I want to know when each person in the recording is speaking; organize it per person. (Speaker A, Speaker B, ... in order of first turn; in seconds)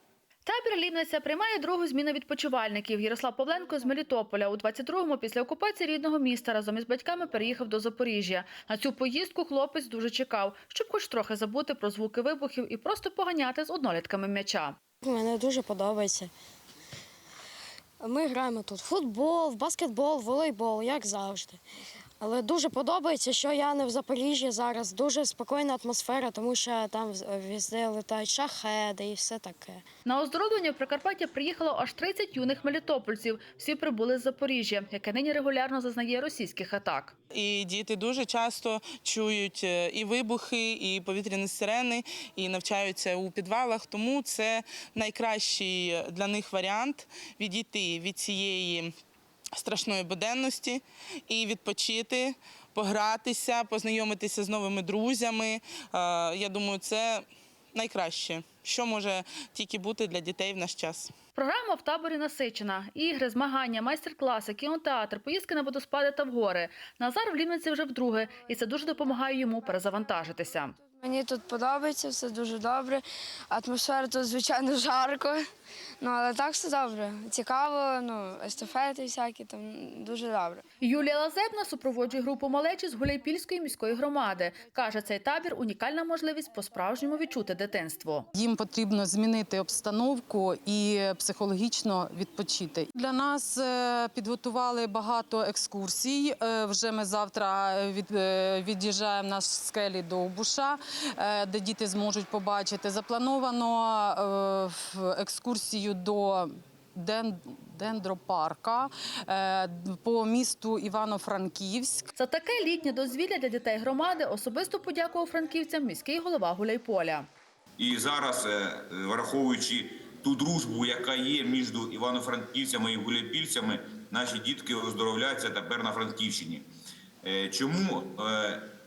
Speaker A: 0.5-14.8, 30.1-37.1, 61.4-70.8, 80.8-88.3, 112.2-117.3
Speaker B: 15.0-16.3, 18.0-21.6, 22.2-29.8
Speaker C: 37.3-48.9, 49.5-61.1
Speaker D: 71.0-75.5, 76.0-80.6
Speaker E: 88.3-112.1
Speaker F: 117.8-126.7, 127.2-128.7